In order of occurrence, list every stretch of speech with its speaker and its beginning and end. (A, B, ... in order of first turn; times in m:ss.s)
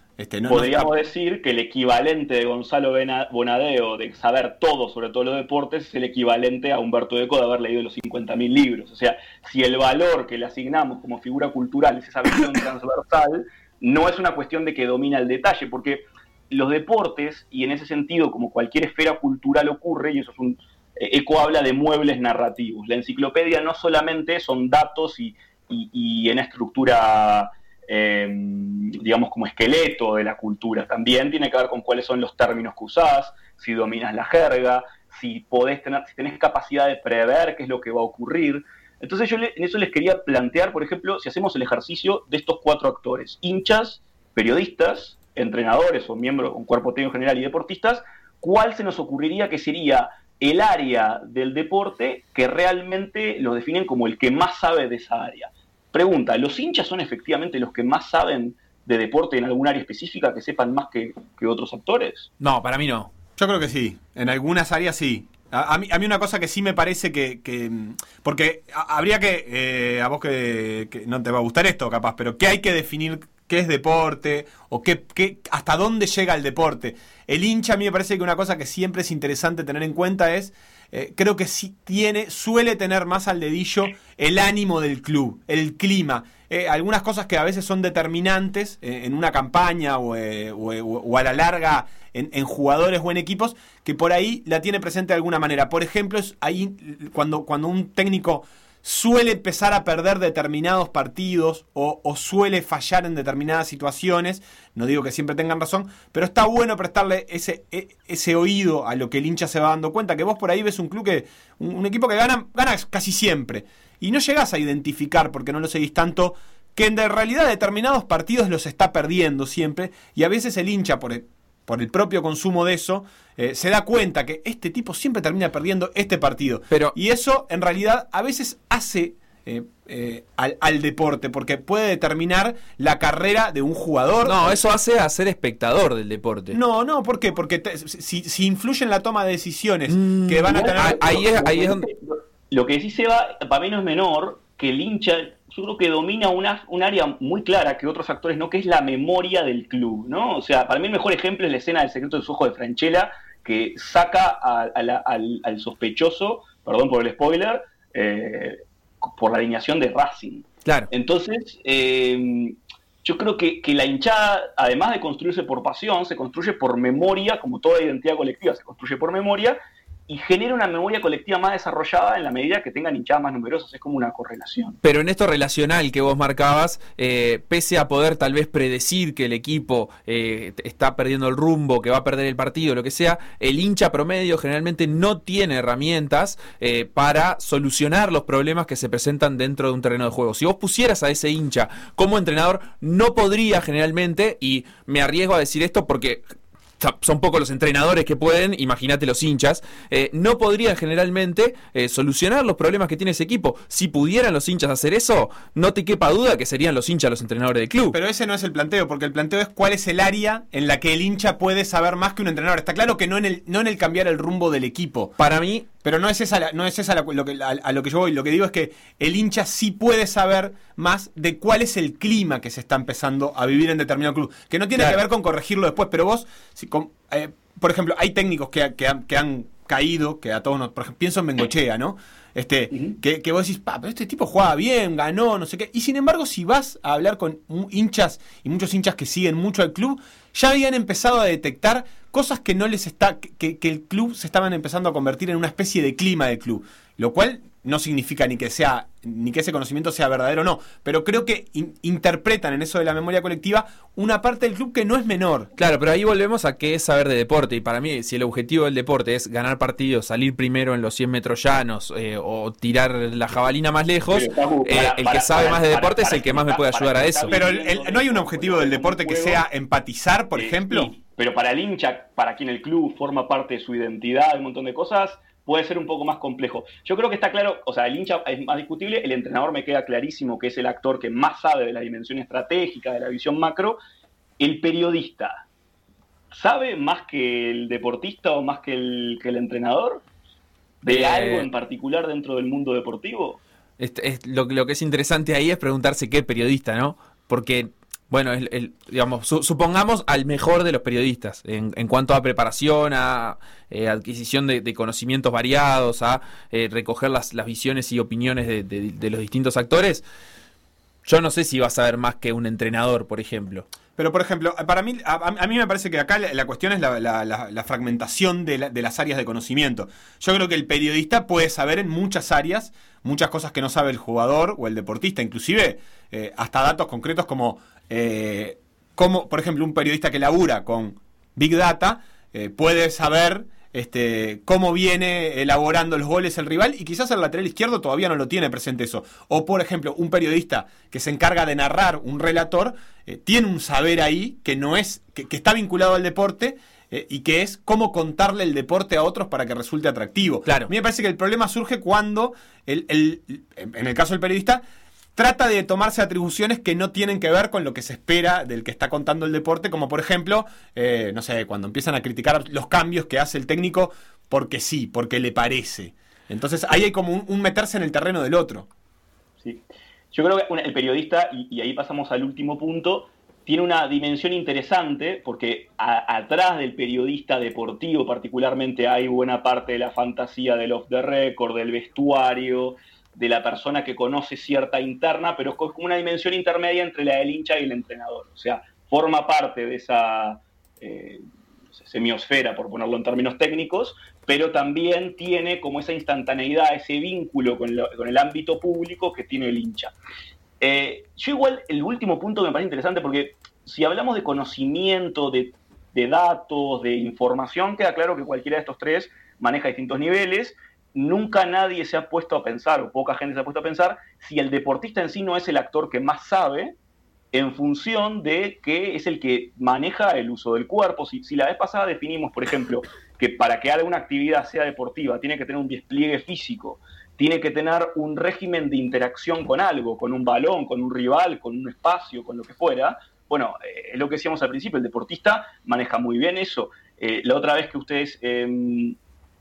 0:00.2-0:00.9 A
0:00.5-1:02.3 B
1:02.4-1:03.1 C
1:03.4-2:14.6 A
2:06.7-2:07.0 C
2:14.2-2:16.6 C
2:16.5-2:21.0 A
2:19.9-2:21.9 C
2:20.5-2:54.8 B
2:40.6-2:40.9 C
2:54.8-3:16.2 C
3:16.8-3:28.0 C
3:27.9-3:35.2 A
3:35.2-3:35.7 C
3:35.8-4:15.5 A
4:15.6-4:27.4 C
4:24.1-4:29.4 B
4:27.3-4:30.9 A
4:30.4-4:43.8 B
4:44.4-4:45.5 B
4:46.3-4:50.0 B
4:50.8-4:53.4 B
4:50.9-4:51.5 C
4:53.8-5:10.0 C
5:11.0-5:13.7 C
5:14.0-5:54.6 A
5:50.5-5:50.7 C
5:55.2-6:08.7 A
6:09.4-6:31.2 B
6:31.8-6:39.9 B
6:40.6-6:56.8 B
6:57.3-7:19.0 B